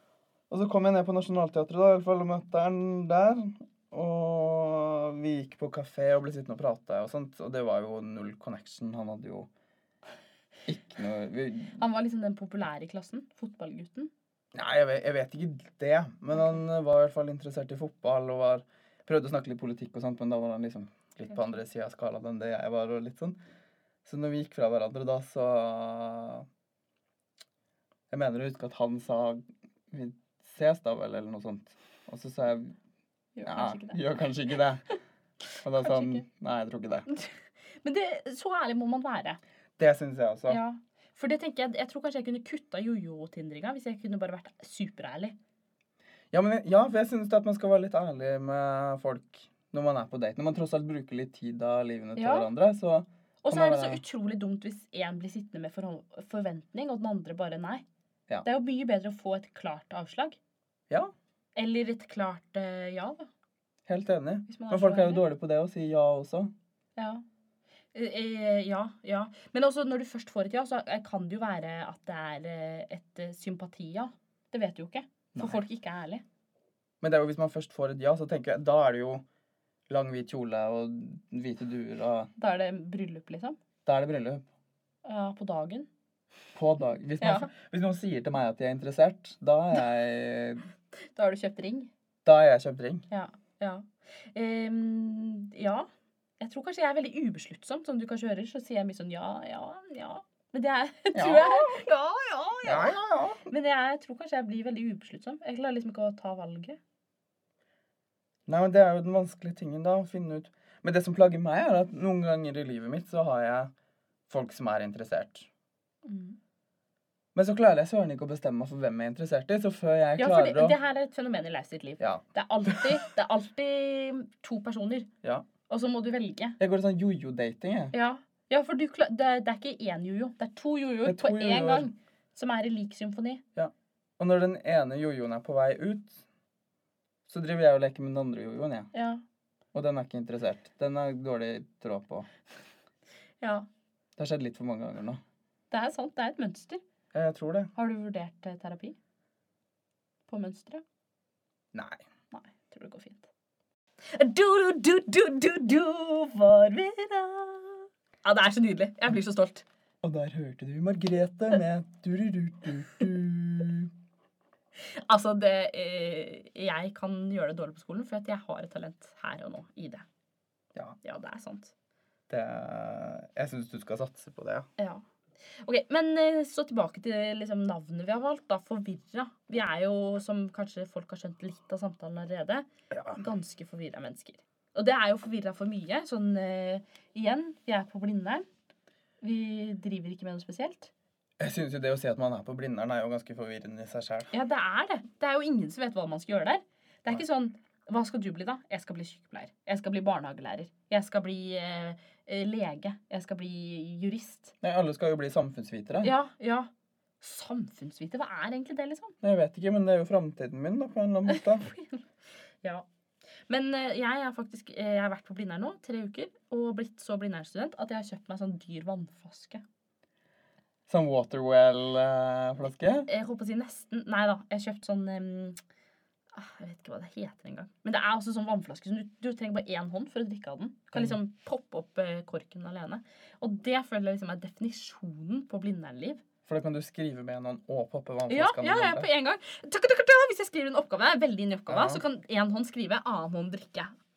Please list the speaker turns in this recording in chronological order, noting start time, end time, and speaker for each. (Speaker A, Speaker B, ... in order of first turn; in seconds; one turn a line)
Speaker A: 0.5-9.5
Speaker A: 10.7-11.8
Speaker B: 11.8-14.1
Speaker A: 14.5-23.4
Speaker A: 24.1-26.5
Speaker A: 28.1-32.8
Speaker B: 33.4-34.0
Speaker A: 33.5-34.8
Speaker A: 35.6-37.1
Speaker B: 35.8-36.2
Speaker B: 37.1-39.4
Speaker A: 39.8-40.6
Speaker B: 40.5-45.4
Speaker A: 46.3-54.0
Speaker B: 52.2-52.5
Speaker B: 53.4-57.8
Speaker B: 58.4-60.4
Speaker B: 61.6-63.3
Speaker A: 63.9-66.5
Speaker B: 64.5-65.2
Speaker B: 67.0-67.2
Speaker B: 67.9-76.2
Speaker A: 75.3-75.6
Speaker A: 77.0-79.2
Speaker A: 79.9-82.3
Speaker B: 82.4-83.6
Speaker A: 83.8-84.5
Speaker B: 85.0-85.9
Speaker A: 86.5-90.6
Speaker B: 87.2-87.5
Speaker B: 91.2-91.9
Speaker A: 92.2-93.0
Speaker B: 93.1-95.9
Speaker B: 96.4-106.8
Speaker A: 101.2-101.8
Speaker A: 102.7-103.4
Speaker A: 108.5-113.7
Speaker A: 114.3-115.5
Speaker B: 116.0-116.4
Speaker A: 117.3-120.8
Speaker B: 120.2-125.1
Speaker A: 122.0-123.0
Speaker B: 125.7-126.6
Speaker A: 126.6-127.9
Speaker B: 127.9-133.4
Speaker A: 131.1-131.9
Speaker A: 133.6-136.2
Speaker A: 137.3-138.9
Speaker B: 138.9-139.2
Speaker A: 139.7-142.3
Speaker B: 143.4-143.7
Speaker A: 144.2-145.2
Speaker B: 145.7-146.8
Speaker A: 147.1-147.7
Speaker B: 147.8-149.0
Speaker B: 150.3-150.8
Speaker A: 151.7-152.0
Speaker B: 152.3-153.3
Speaker B: 154.0-159.7
Speaker A: 160.0-163.9
Speaker B: 164.8-170.1
Speaker B: 171.0-171.7
Speaker A: 172.3-174.7
Speaker B: 174.8-188.5
Speaker A: 182.9-183.2
Speaker B: 189.2-190.9
Speaker A: 191.4-194.3
Speaker B: 194.3-204.6
Speaker A: 204.6-206.1
Speaker B: 206.0-206.7
Speaker B: 207.2-209.2
Speaker A: 209.2-211.7
Speaker B: 211.3-212.1
Speaker B: 212.6-212.9
Speaker B: 213.5-219.6
Speaker A: 220.9-223.1
Speaker B: 223.1-225.6
Speaker B: 226.3-236.2
Speaker A: 230.9-231.2
Speaker A: 236.4-239.1
Speaker B: 238.3-243.9
Speaker A: 241.7-242.0